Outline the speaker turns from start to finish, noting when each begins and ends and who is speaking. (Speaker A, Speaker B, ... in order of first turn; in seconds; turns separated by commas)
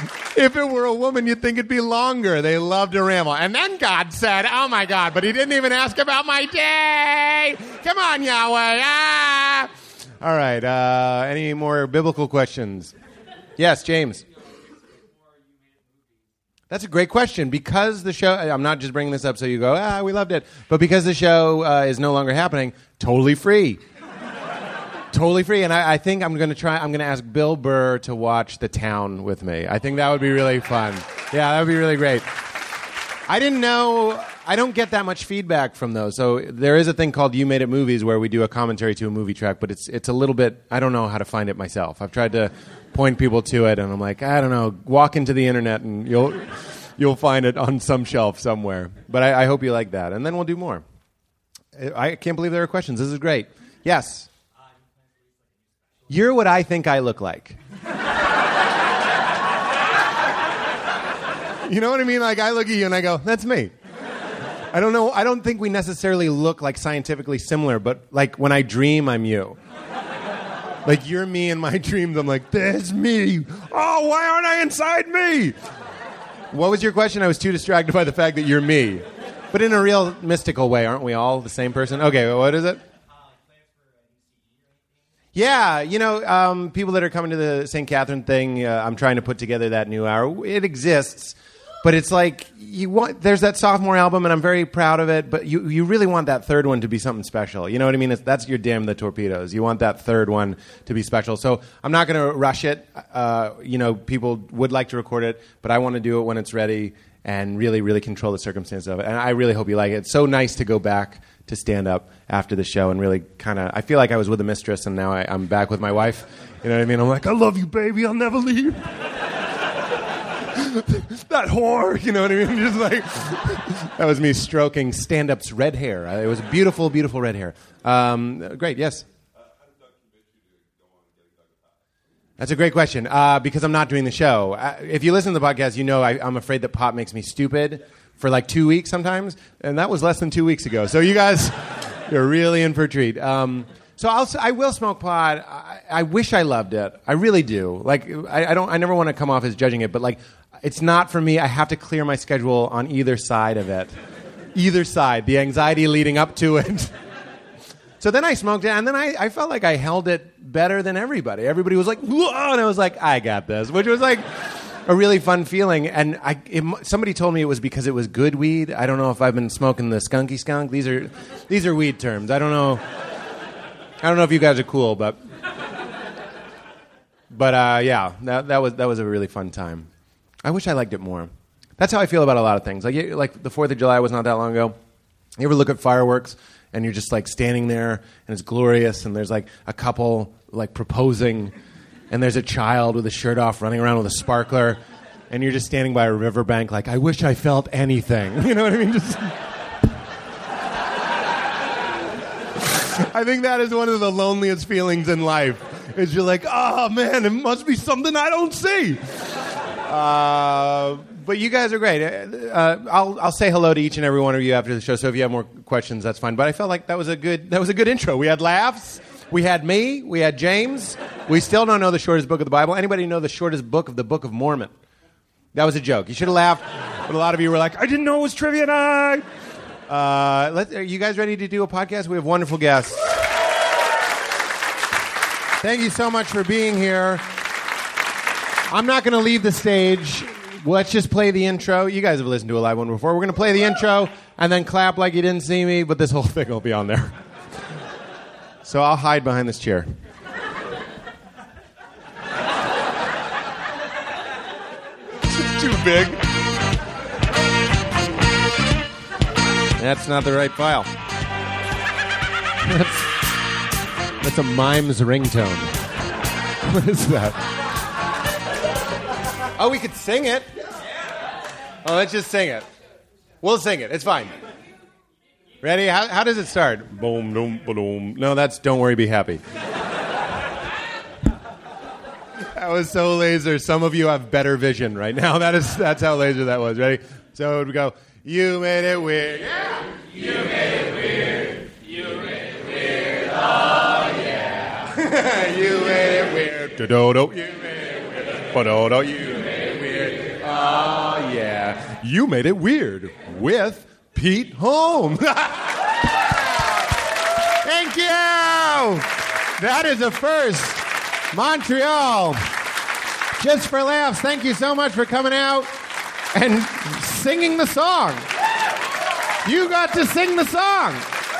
Speaker A: 0.3-9.7, Speaker A: 10.2-12.9, Speaker A: 13.6-14.2, Speaker A: 16.7-23.8, Speaker A: 25.1-32.3, Speaker A: 33.3-50.8, Speaker A: 51.7-54.3, Speaker A: 56.1-57.6, Speaker A: 61.6-63.7, Speaker A: 64.7-69.6, Speaker A: 70.8-75.5, Speaker A: 76.5-82.8, Speaker A: 85.3-118.8, Speaker A: 120.5-129.1, Speaker A: 132.4-153.9, Speaker A: 154.5-156.9, Speaker A: 158.0-164.2, Speaker A: 164.8-172.8, Speaker A: 174.0-175.2, Speaker A: 177.3-179.9, Speaker A: 180.4-184.8, Speaker A: 185.4-191.5, Speaker A: 192.1-194.8, Speaker A: 195.3-199.3, Speaker A: 202.6-209.0, Speaker A: 209.9-224.7, Speaker A: 225.5-229.2, Speaker A: 229.9-233.1, Speaker A: 235.6-237.2, Speaker A: 238.7-247.2, Speaker A: 248.6-249.9, Speaker A: 255.3-256.2, Speaker A: 259.8-260.9, Speaker A: 262.6-263.1, Speaker A: 264.2-265.7, Speaker A: 266.6-267.4, Speaker A: 269.5-270.6, Speaker A: 271.8-272.7, Speaker A: 273.4-274.3, Speaker A: 275.6-279.4, Speaker A: 282.5-306.9, Speaker A: 307.6-312.4, Speaker A: 313.4-315.7, Speaker A: 316.3-318.2, Speaker A: 319.4-321.0